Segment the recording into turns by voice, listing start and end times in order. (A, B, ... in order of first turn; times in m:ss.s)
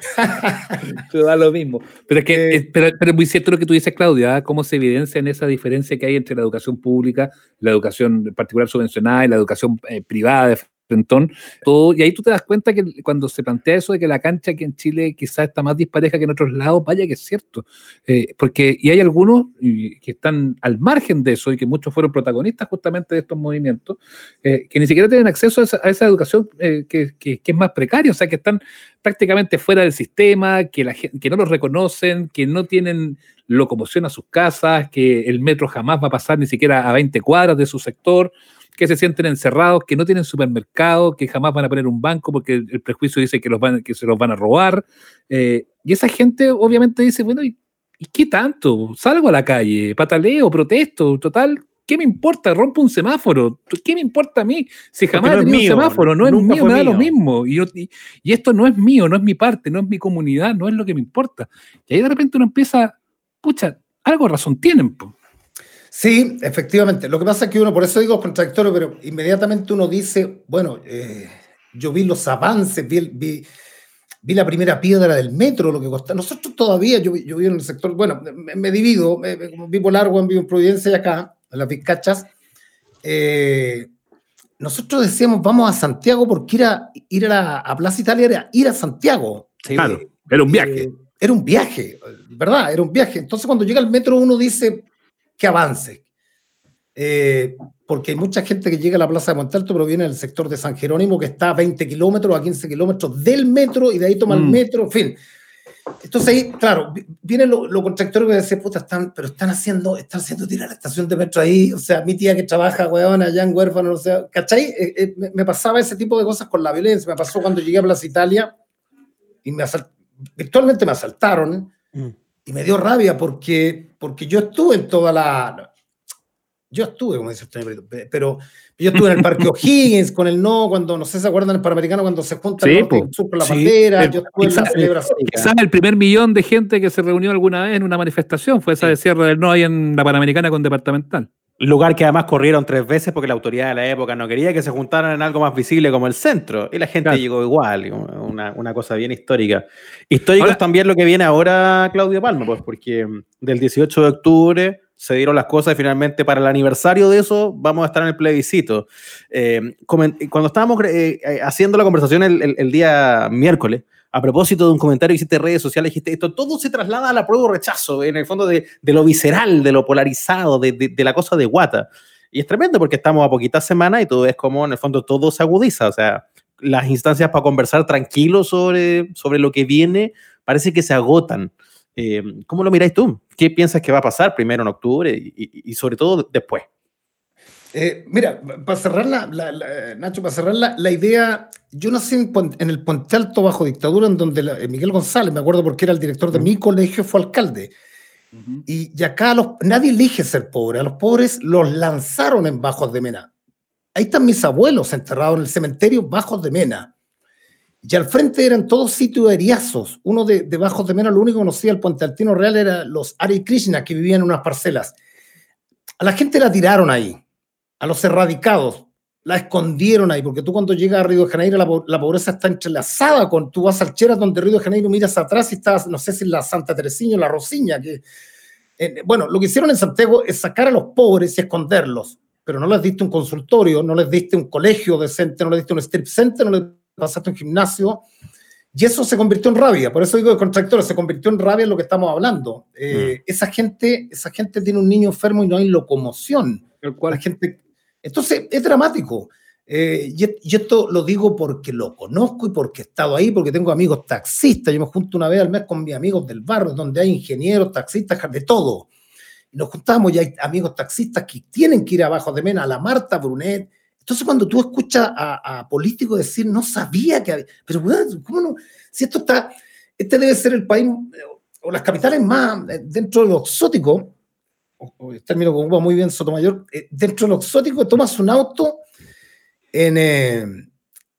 0:00.2-0:00.7 A
0:00.8-1:05.1 B
0:02.3-0:02.6 A
0:55.1-0:57.1 C
1:05.9-1:13.5 A
1:14.2-1:22.3 A
1:23.0-1:23.9 A
1:24.6-1:34.9 A
1:29.6-1:29.9 C
1:29.8-1:30.8 B
1:35.4-1:36.0 A
1:36.9-1:45.2 A
1:44.3-1:44.6 B
1:46.0-1:58.5 A
1:59.4-2:01.7 A
2:02.4-2:05.6 A
2:06.7-2:15.5 A
2:12.6-2:13.1 B
2:13.4-2:13.7 C
2:14.0-2:21.3 B
2:14.6-2:14.9 C
2:21.6-3:06.6 C
3:07.7-3:17.7 A
3:18.3-3:18.6 B
3:18.7-3:23.3 A
3:23.9-3:26.9 A
3:27.8-3:35.0 A
3:36.0-3:37.2 A
3:37.8-3:48.0 A
3:48.8-3:58.1 A
3:58.7-4:18.9 A
4:06.8-4:07.2 B
4:19.5-4:34.1 A
4:34.8-4:38.8 A
4:39.7-4:40.7 A